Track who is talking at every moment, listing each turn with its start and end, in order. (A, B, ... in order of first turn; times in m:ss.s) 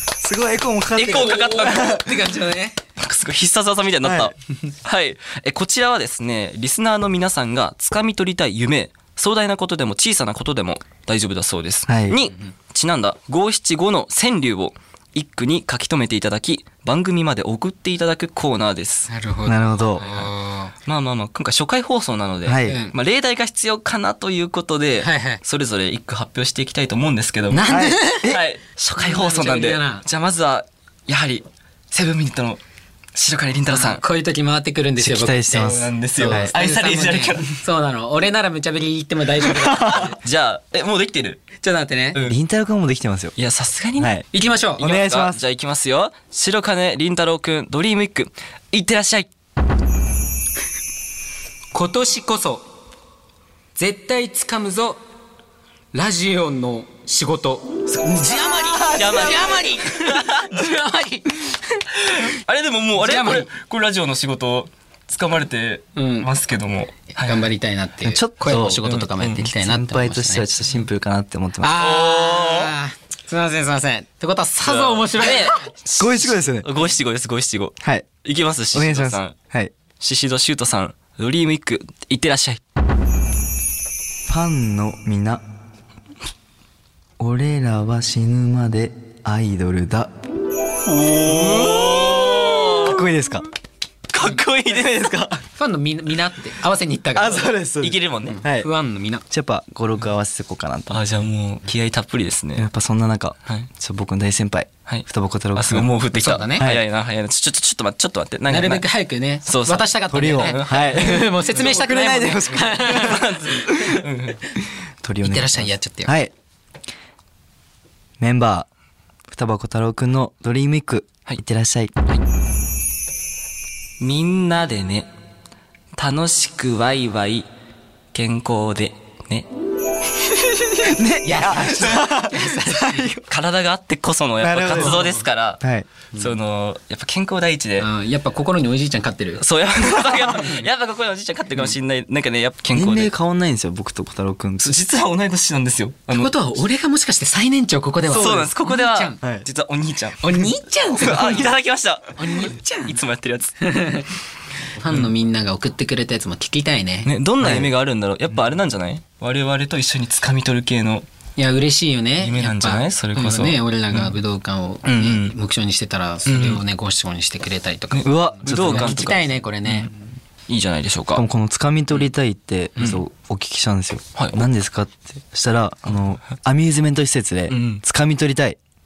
0:00.2-0:01.8 A
0:01.0-0:02.1 B
0:01.3-0:02.8 C
0:03.0-0:19.1 B
0:04.0-0:04.3 A
0:11.9-0:12.2 A
0:19.1-0:20.7 C
0:19.4-0:20.0 A
0:20.0-0:20.3 B
0:20.8-0:32.6 B
0:22.4-0:22.8 A
0:22.6-0:22.9 C
0:25.0-0:25.4 C
0:27.5-0:28.3 C
0:27.7-0:28.4 A
0:29.0-0:30.0 C
0:33.1-0:34.0 B
0:33.7-0:40.2 C
0:35.0-0:36.5 A
0:35.5-0:37.6 B
0:39.8-0:41.4 B
0:41.6-0:42.2 C
0:42.2-0:43.4 A
0:43.4-0:44.2 B
0:44.0-0:44.2 A
0:44.3-0:44.8 C
0:44.8-0:49.3 B
0:44.8-0:45.4 A
0:51.7-0:52.7 C
0:53.8-0:55.0 C
0:55.9-1:02.3 C
0:58.8-1:00.6 B
1:02.1-1:07.5 B
1:03.0-1:03.5 C
1:05.9-1:06.3 C
1:07.2-1:10.5 C
1:08.0-1:08.8 A
1:08.5-1:09.5 B
1:09.6-1:11.8 A
1:11.6-1:15.6 C
1:11.8-1:12.7 B
1:14.6-1:19.4 B
1:16.0-1:16.7 A
1:17.8-1:18.1 A
1:18.7-1:19.7 A
1:20.0-1:22.6 B
1:24.3-1:25.4 A
1:27.2-1:30.1 A
1:30.8-1:33.1 B
1:31.2-1:33.4 A
1:34.1-1:35.4 B
1:35.6-1:37.5 C
1:37.1-1:38.7 A
1:37.8-1:38.4 B
1:38.3-1:39.2 C
1:39.3-1:41.0 A
1:40.9-1:42.7 B
1:42.6-1:45.9 A
1:44.8-1:48.8 B
1:46.1-1:46.7 C
1:48.5-1:53.3 C
1:49.4-1:51.3 B
1:50.1-1:54.0 A
1:52.6-1:54.4 B
1:55.0-1:56.3 A
1:55.2-1:56.1 C
1:58.2-1:58.7 A
1:59.3-2:01.9 A
2:04.0-2:05.1 B
2:06.0-2:07.5 B
2:08.1-2:09.5 B
2:10.6-2:13.1 C
2:10.8-2:13.2 A
2:13.3-2:15.6 B
2:14.4-2:15.0 A
2:14.7-2:15.2 C
2:15.6-2:15.9 A
2:16.2-2:17.9 B
2:17.8-2:19.4 C
2:19.4-2:23.1 B
2:22.7-2:24.8 A
2:24.6-2:26.3 B
2:26.1-2:29.2 C
2:28.1-2:33.6 B
2:30.2-2:31.5 C
2:32.2-2:33.0 C
2:33.6-2:34.1 C
2:34.7-2:37.1 C
2:37.0-2:41.1 B
2:37.4-2:37.7 A
2:41.4-2:49.9 C
2:42.2-2:44.1 B
2:44.8-2:45.3 B
2:46.2-2:46.6 B
2:47.9-2:49.9 B
2:48.0-2:49.0 A
2:50.5-2:51.2 B
2:51.1-2:58.6 A
2:54.2-2:54.4 B
2:57.5-2:57.8 B